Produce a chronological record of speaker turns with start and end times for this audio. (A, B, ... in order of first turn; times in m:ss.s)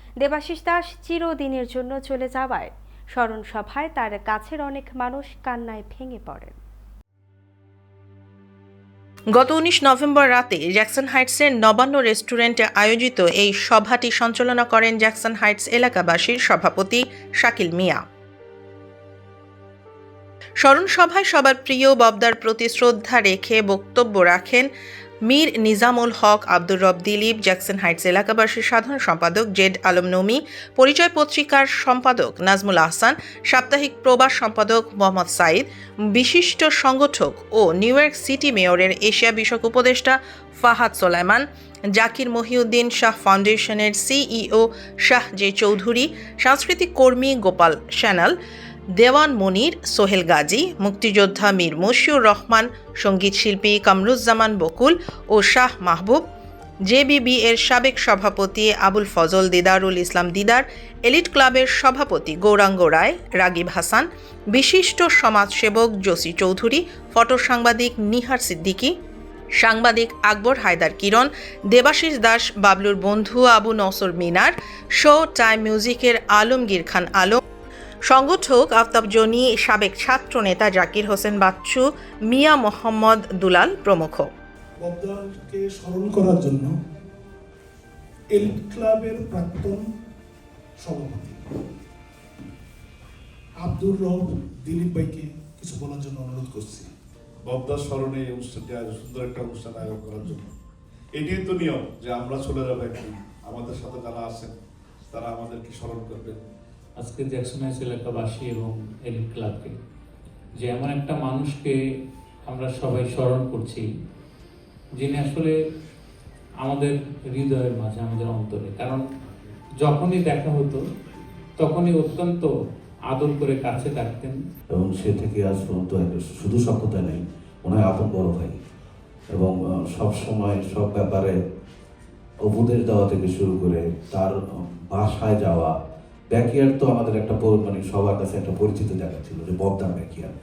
0:00.2-0:06.6 A
0:09.3-0:18.0 B
0:20.6-0:24.7 B
0:25.3-0:48.4 B
0:49.0-0:56.2 B
0:56.9-1:08.9 B
1:09.6-1:17.4 B
1:18.1-1:24.3 B
1:24.8-1:26.7 C
1:28.3-1:29.8 C
1:30.8-1:31.4 C
1:33.6-1:36.9 C
1:37.4-1:40.4 D
1:41.2-1:44.5 D
1:45.1-1:46.4 D
1:47.0-1:49.8 E
1:50.6-1:51.8 E
1:52.4-1:53.8 E
1:55.0-1:55.5 E
1:56.6-1:59.0 E
1:59.8-2:00.8 E
2:01.6-2:02.5 E
2:03.1-2:04.4 E
2:04.8-2:08.6 F
2:09.3-2:11.4 F
2:12.4-2:14.4 F
2:14.9-2:15.7 F
2:16.3-2:20.3 F